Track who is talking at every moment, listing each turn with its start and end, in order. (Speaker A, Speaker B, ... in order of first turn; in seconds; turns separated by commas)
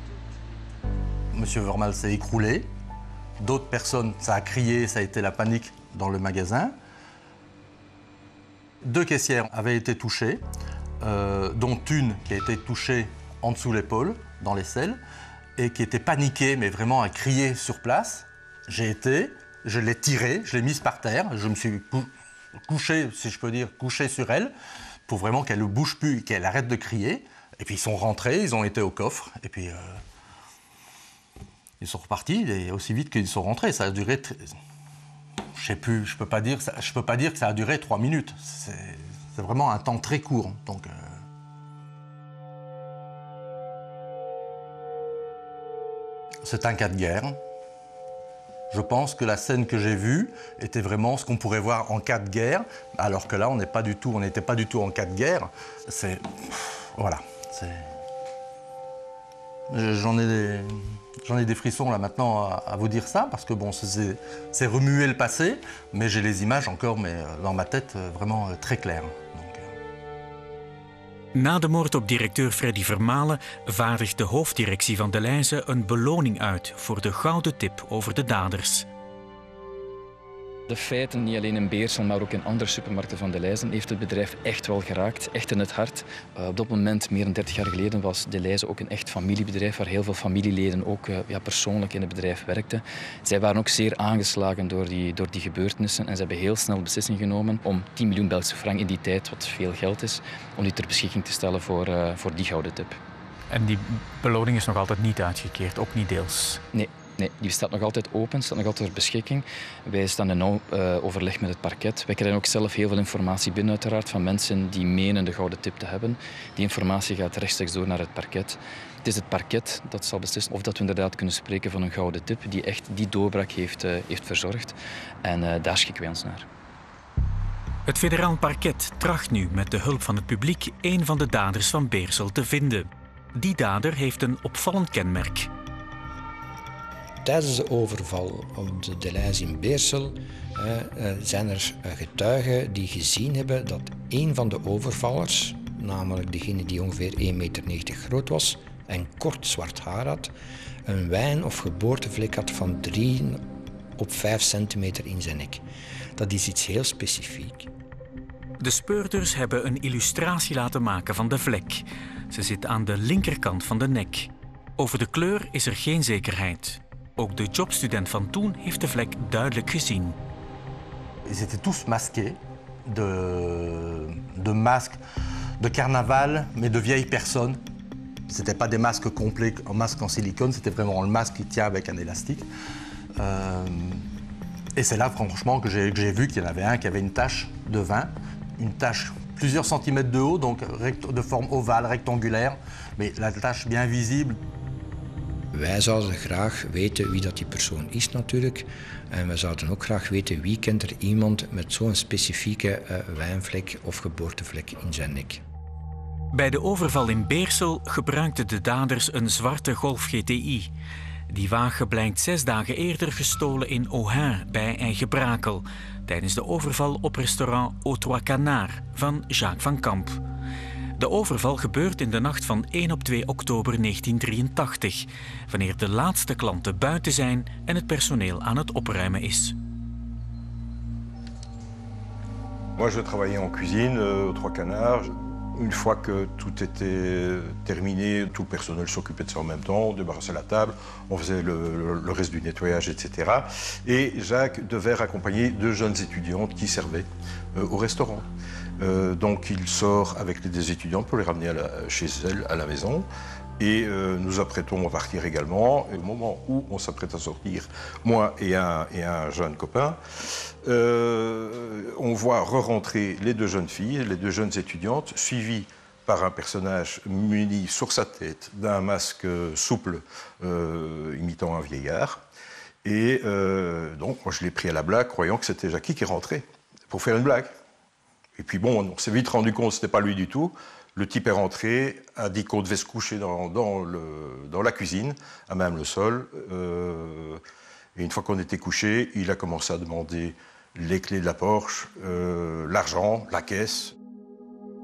Speaker A: 1.3-2.7, Speaker A: 3.4-6.7, Speaker A: 8.8-10.4, Speaker A: 11.0-15.0, Speaker A: 15.6-22.1, Speaker A: 22.6-24.5, Speaker A: 25.1-30.0, Speaker A: 31.8-34.6, Speaker A: 35.5-41.2, Speaker A: 46.4-47.4, Speaker A: 48.7-57.9, Speaker A: 59.7-69.7, Speaker B: 71.3-78.9, Speaker C: 80.7-103.0, Speaker B: 103.5-106.6, Speaker C: 106.7-126.5, Speaker B: 127.8-135.5, Speaker D: 137.2-150.3, Speaker D: 150.8-153.4, Speaker D: 154.0-155.6, Speaker D: 156.2-157.7, Speaker B: 158.6-170.2, Speaker A: 171.2-175.0, Speaker A: 175.6-177.6, Speaker A: 178.3-182.5, Speaker A: 183.2-184.1, Speaker A: 184.8-194.4, Speaker D: 195.5-205.4, Speaker B: 206.3-210.7, Speaker B: 211.3-220.2, Speaker B: 220.9-229.5, Speaker E: 232.8-248.3, Speaker E: 248.8-253.1, Speaker E: 253.6-260.0, Speaker E: 260.6-272.2, Speaker E: 272.8-277.5, Speaker E: 278.4-287.4, Speaker E: 287.9-293.9